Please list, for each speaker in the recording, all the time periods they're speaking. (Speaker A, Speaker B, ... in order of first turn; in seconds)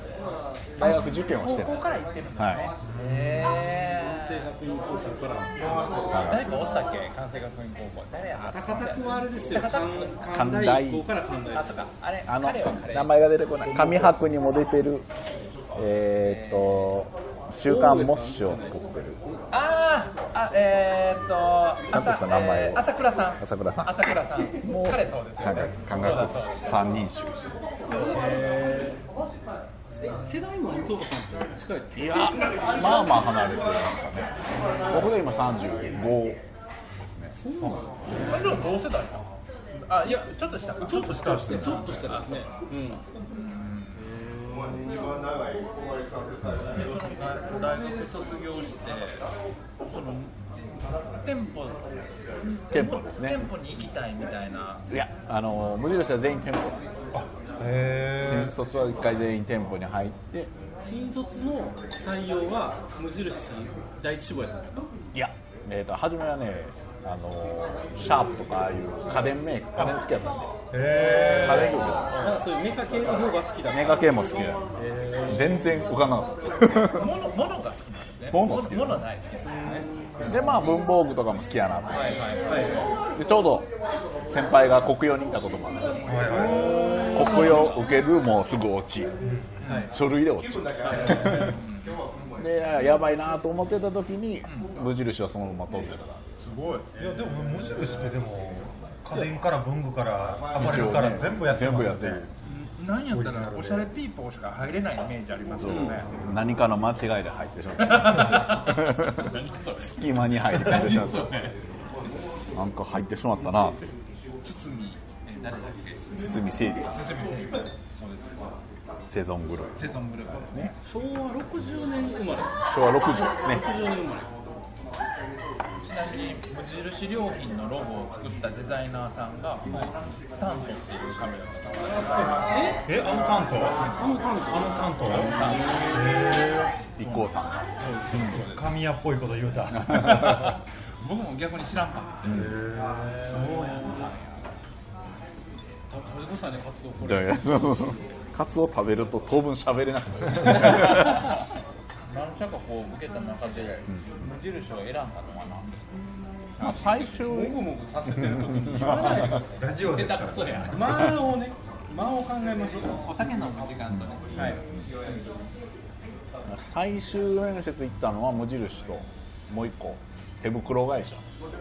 Speaker A: 0.8-2.7, 6.1-6.5, 10.3-11.1, 12.2-15.1, 15.7-19.2, 21.9-22.9, 23.4-27.6, 31.9-34.3, 34.9-36.4, 37.0-37.7, 46.5-46.8, 52.7-53.5, 54.9-56.9, 58.2-60.5, 65.1-70.5, 71.3-72.2, 73.7-74.6, 75.3-77.1, 78.3-79.0, 80.3-82.3, 83.1-83.7, 84.3-86.1, 87.1-89.1, 89.9-91.5, 92.4-96.3, 100.5-102.3, 105.6-111.3, 112.5-113.9, 116.1-117.1, 119.1-120.7, 122.7-123.6, 137.0-137.6, 139.8-140.5, 142.2-142.5, 147.0-151.3, 156.6-157.6, 158.2-159.1, 163.9-164.8, 166.5-171.2
Speaker B: 0.8-4.5, 6.2-10.1, 11.5-13.3, 16.2-16.9, 19.5-26.8, 27.9-28.4, 38.2-44.0, 46.7-49.2, 49.8-50.4, 51.1-54.9, 76.9-79.8, 81.9-82.9, 86.6-87.8, 89.6-89.9, 90.9-92.0, 96.4-96.9, 102.4-106.1, 107.8-111.6, 114.4-116.2, 116.8-118.5, 119.8-120.7, 125.8-132.8, 135.0-135.9, 137.0-138.7, 139.9-142.5, 143.2-144.4, 150.5-151.4, 152.1-155.9, 156.6-157.2, 158.8-161.1, 163.0-165.1
Speaker C: 2.8-3.5, 40.9-42.4, 57.1-58.5, 70.7-71.8, 86.0-87.0, 89.2-89.8, 97.0-102.2, 103.1-103.9, 132.1-136.7, 138.2-140.4, 142.3-143.2, 159.2-160.8
Speaker D: 3.7-5.9, 8.5-11.8, 13.6-14.1, 17.6-19.4, 27.9-29.0, 30.0-32.4, 37.3-38.6, 40.0-43.0, 44.0-45.2, 60.8-64.9, 70.8-75.8, 79.4-80.5, 82.4-82.9, 86.3-87.7, 89.6-89.9, 96.9-98.0, 105.6-106.0, 120.8-122.5, 123.2-124.3, 125.9-126.3, 132.5-132.8, 133.6-136.2, 137.8-138.2, 143.2-144.1, 145.9-148.1, 157.2-159.5, 160.7-163.0, 164.3-164.6